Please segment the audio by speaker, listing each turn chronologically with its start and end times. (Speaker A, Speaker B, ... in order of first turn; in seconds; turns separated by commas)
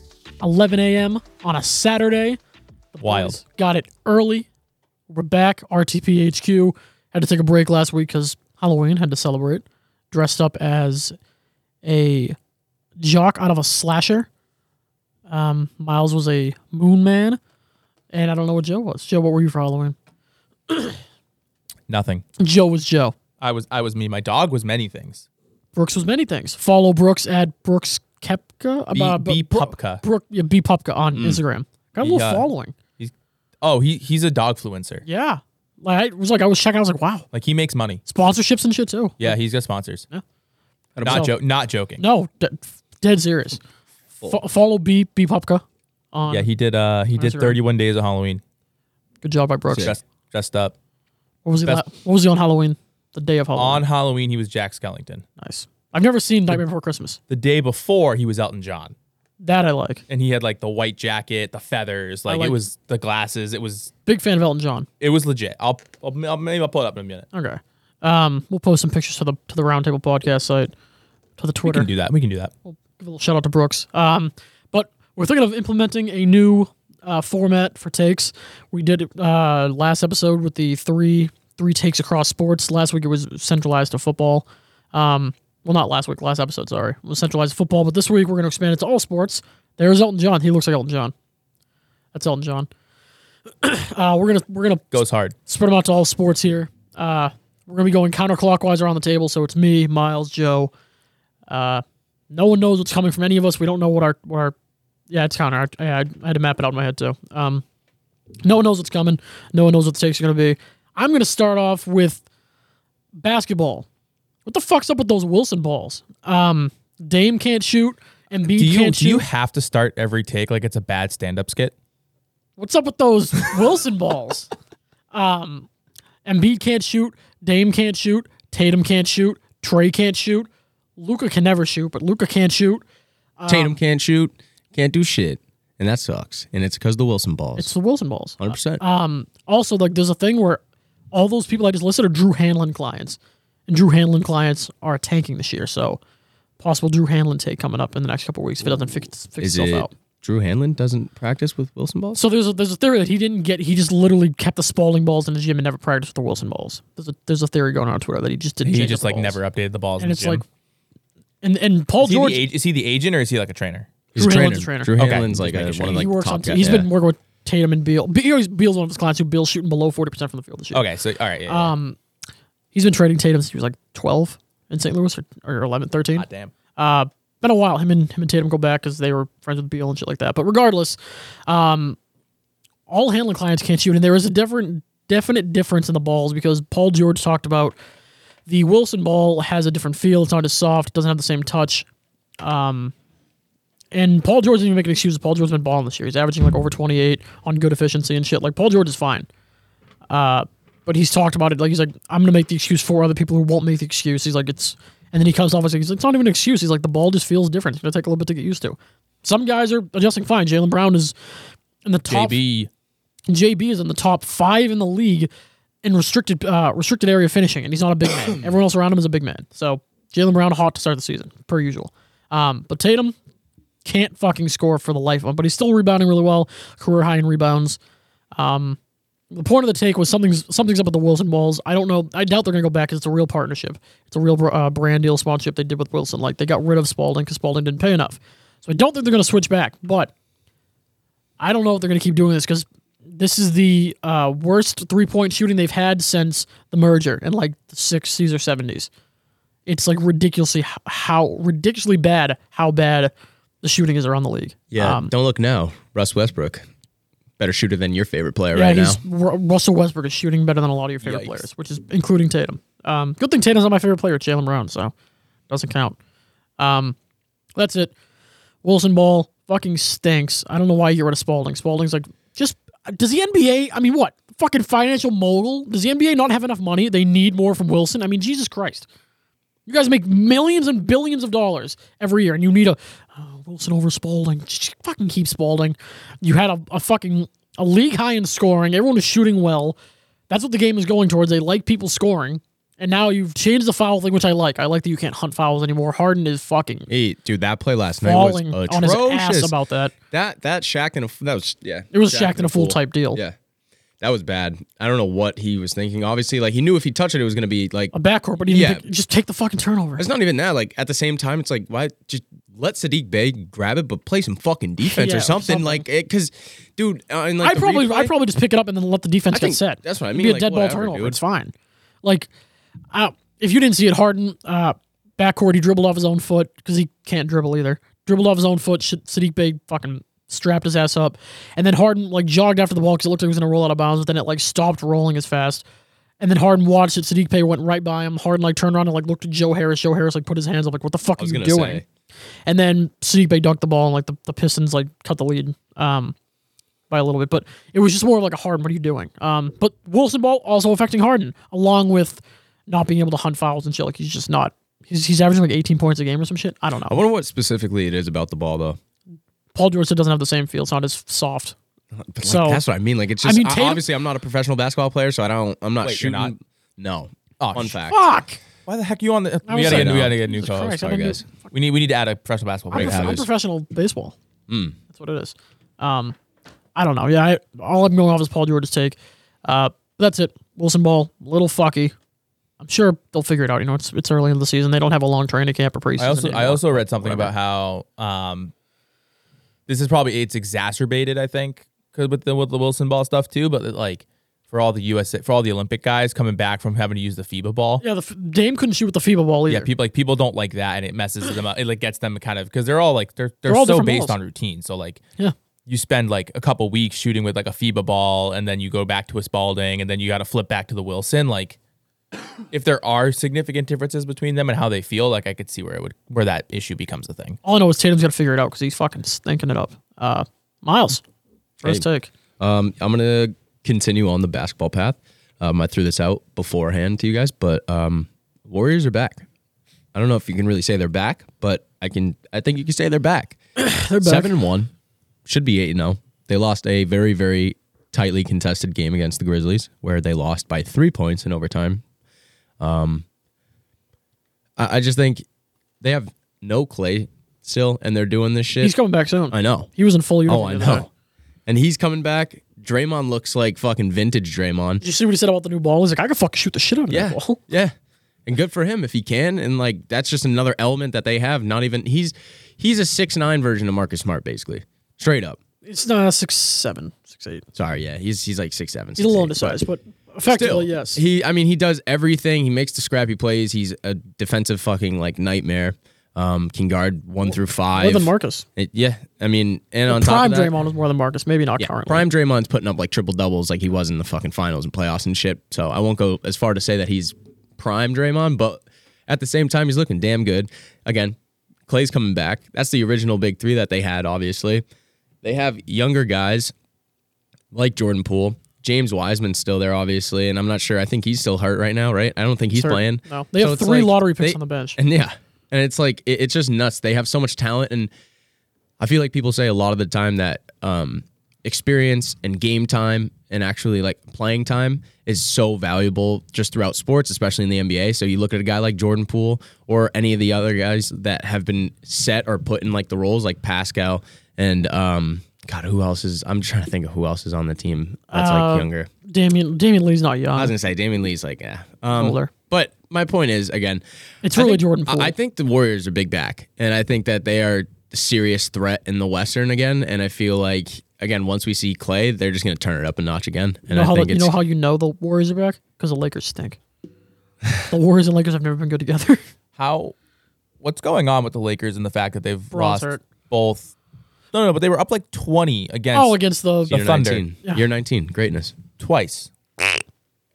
Speaker A: 0.4-2.4, Speaker A: 2.9-4.5, Speaker B: 3.0-3.4, Speaker A: 5.1-11.2, Speaker A: 11.8-12.3, Speaker A: 13.0-14.3, Speaker A: 15.3-17.4, Speaker A: 18.1-19.9, Speaker A: 20.7-21.0, Speaker B: 21.9-22.2, Speaker A: 22.4-23.1, Speaker B: 23.4-25.2, Speaker A: 25.7-32.7, Speaker B: 28.9-30.0, Speaker C: 31.1-31.4, Speaker B: 32.0-32.5, Speaker B: 33.0-35.0, Speaker A: 35.0-37.3, Speaker B: 37.3-38.0, Speaker A: 38.0-39.3, Speaker B: 39.2-40.1, Speaker C: 41.0-41.3, Speaker B: 41.0-42.0, Speaker A: 41.0-41.3, Speaker A: 42.0-43.6, Speaker A: 44.2-46.5, Speaker B: 46.3-48.4, Speaker A: 47.2-47.6, Speaker A: 49.2-50.0, Speaker B: 49.7-50.7, Speaker A: 51.4-53.8, Speaker B: 53.5-55.2, Speaker A: 55.4-57.2, Speaker B: 57.3-58.9, Speaker A: 59.4-60.0, Speaker B: 60.1-63.9, Speaker A: 62.3-62.6, Speaker A: 64.0-64.8, Speaker B: 65.0-67.3, Speaker A: 67.3-70.7, Speaker A: 71.4-71.9, Speaker B: 71.6-72.5, Speaker A: 72.7-91.1, Speaker A: 92.1-92.7, Speaker A: 93.6-100.7, Speaker B: 94.9-95.3, Speaker A: 101.5-104.5, Speaker A: 105.1-107.6, Speaker A: 108.4-112.2, Speaker A: 113.2-113.8, Speaker A: 114.5-119.2, Speaker B: 118.5-121.7, Speaker A: 122.6-124.5, Speaker A: 125.1-125.7, Speaker A: 126.2-132.8, Speaker A: 133.4-133.8, Speaker C: 133.5-137.7, Speaker A: 137.6-140.6, Speaker C: 138.4-138.8, Speaker A: 141.1-146.0, Speaker A: 146.6-149.9, Speaker C: 149.4-152.2, Speaker A: 152.1-159.4, Speaker B: 158.6-160.4, Speaker A: 160.0-160.4, Speaker A: 161.4-162.4, Speaker B: 162.0-163.9, Speaker C: 164.1-166.9, Speaker A: 164.2-164.9, Speaker B: 165.0-166.0, Speaker A: 165.9-170.8, Speaker B: 170.7-171.7, Speaker A: 171.5-172.0, Speaker A: 172.7-176.2, Speaker B: 176.1-176.5, Speaker A: 176.8-180.9, Speaker A: 181.5-182.0, Speaker A: 182.9-187.7, Speaker A: 188.5-191.9, Speaker A: 192.4-192.9, Speaker A: 193.9-199.3, Speaker A: 200.1-211.1, Speaker A: 211.8-212.4, Speaker B: 212.1-212.7, Speaker A: 213.3-215.3, Speaker A: 215.8-223.1, Speaker A: 223.8-227.8, Speaker A: 228.3-228.8, Speaker A: 229.3-240.1, Speaker A: 241.4-248.9, Speaker A: 249.7-255.1, Speaker C: 254.7-256.6, Speaker C: 257.4-259.0, Speaker A: 258.5-264.9, Speaker C: 261.0-261.4, Speaker A: 265.5-266.0, Speaker A: 266.6-266.9, Speaker A: 267.6-267.9, Speaker A: 268.6-278.9, Speaker A: 279.6-289.8, Speaker A: 290.3-296.9, Speaker C: 296.9-299.5, Speaker A: 298.0-299.9, Speaker C: 300.1-303.4, Speaker A: 301.9-303.2, Speaker C: 304.0-307.9, Speaker A: 307.9-310.0, Speaker C: 308.5-308.8, Speaker C: 310.0-318.1, Speaker A: 314.9-315.8, Speaker A: 317.4-322.3, Speaker C: 319.3-321.2, Speaker A: 322.9-335.6, Speaker A: 336.2-341.8, Speaker C: 341.2-341.8, Speaker A: 342.5-346.1, Speaker A: 346.9-357.0, Speaker C: 356.9-358.8, Speaker A: 359.5-361.6, Speaker C: 362.0-368.0, Speaker A: 362.2-362.6, Speaker A: 363.2-363.8, Speaker B: 365.8-366.3, Speaker B: 367.4-367.8, Speaker A: 367.9-368.4, Speaker B: 368.6-373.2, Speaker A: 369.5-371.2, Speaker C: 369.6-370.1, Speaker C: 370.8-371.3, Speaker A: 372.7-374.1, Speaker C: 372.7-373.2, Speaker C: 374.5-374.8, Speaker A: 374.9-376.1, Speaker A: 376.8-381.9, Speaker A: 382.6-387.3, Speaker B: 386.0-388.5, Speaker B: 389.7-397.8, Speaker A: 397.8-399.7, Speaker B: 399.5-405.0, Speaker A: 403.5-404.2, Speaker B: 405.7-411.6, Speaker B: 412.5-417.4, Speaker A: 417.4-421.0, Speaker A: 421.6-422.1, Speaker C: 422.4-429.2, Speaker C: 429.9-433.4, Speaker A: 433.6-434.4, Speaker C: 434.0-434.7, Speaker C: 435.2-441.8, Speaker C: 442.6-443.0, Speaker C: 444.6-445.2, Speaker C: 445.8-448.7, Speaker A: 448.6-450.9, Speaker C: 449.3-449.7, Speaker C: 450.3-450.9, Speaker C: 451.4-454.8, Speaker A: 454.8-457.4, Speaker C: 456.9-457.7, Speaker C: 458.2-465.4, Speaker A: 465.6-467.4, Speaker C: 467.5-469.6, Speaker A: 469.0-471.0, Speaker C: 470.3-480.5, Speaker A: 477.7-478.4, Speaker A: 479.9-482.0, Speaker C: 481.6-491.1, Speaker C: 491.7-494.6, Speaker C: 495.2-496.5, Speaker C: 497.5-507.9, Speaker A: 502.5-504.8, Speaker C: 508.8-528.9, Speaker A: 528.1-530.5, Speaker C: 530.4-533.8, Speaker A: 531.9-532.3, Speaker A: 534.2-535.1, Speaker C: 534.3-544.4, Speaker A: 543.7-546.6, Speaker A: 547.7-549.2, Speaker B: 549.5-549.9, Speaker B: 550.6-553.7, Speaker A: 552.5-553.0, Speaker B: 554.3-556.2, Speaker A: 555.9-556.8, Speaker B: 556.7-557.2, Speaker C: 556.7-558.6, Speaker B: 558.8-559.3